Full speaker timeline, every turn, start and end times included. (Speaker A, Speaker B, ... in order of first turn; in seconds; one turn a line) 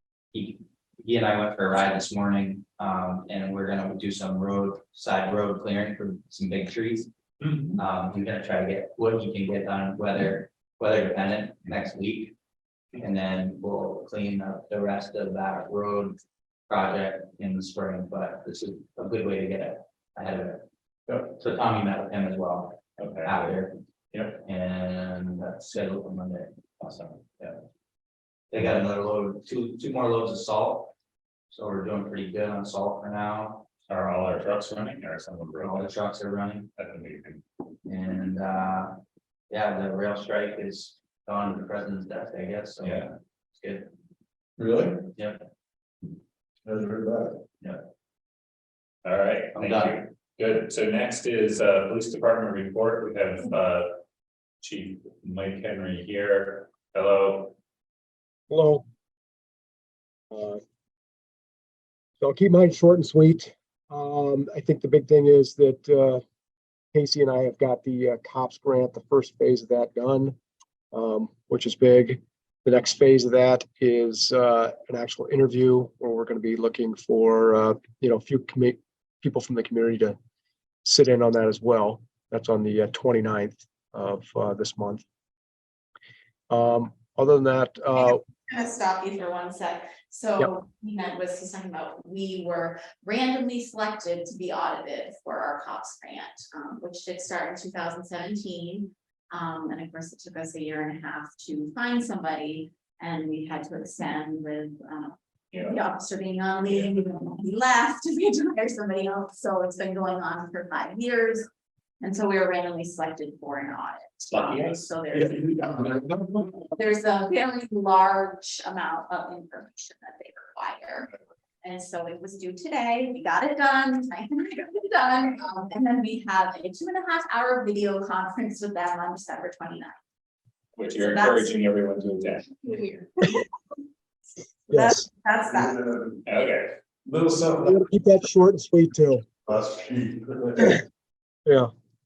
Speaker A: 0.3-7.1
Speaker B: 7.4-7.8
Speaker A: 7.8-12.3
Speaker A: 13.0-20.6
Speaker A: 21.1-23.8
Speaker B: 23.0-23.5
Speaker A: 24.3-27.6
Speaker A: 28.5-30.9
Speaker A: 31.5-33.7
Speaker B: 33.9-35.9
Speaker A: 35.6-36.7
Speaker B: 36.8-37.4
Speaker A: 37.9-39.0
Speaker A: 39.5-43.9
Speaker B: 42.8-43.1
Speaker C: 44.6-45.1
Speaker A: 45.1-45.4
Speaker C: 46.6-47.4
Speaker B: 49.0-54.0
Speaker A: 49.6-50.0
Speaker B: 54.6-57.5
Speaker D: 58.5-58.8
Speaker D: 60.3-60.6
Speaker D: 62.2-66.2
Speaker D: 66.9-70.4
Speaker D: 70.9-80.2
Speaker D: 80.8-85.0
Speaker D: 86.5-88.2
Speaker E: 88.0-111.5
Speaker E: 112.0-115.8
Speaker B: 114.3-114.9
Speaker C: 115.1-116.7
Speaker E: 116.8-129.9
Speaker B: 130.8-132.5
Speaker E: 130.9-131.6
Speaker E: 132.6-133.4
Speaker D: 134.7-135.1
Speaker E: 134.7-135.8
Speaker C: 135.5-136.2
Speaker B: 136.3-136.7
Speaker C: 137.1-137.9
Speaker D: 137.6-139.2
Speaker C: 139.4-140.8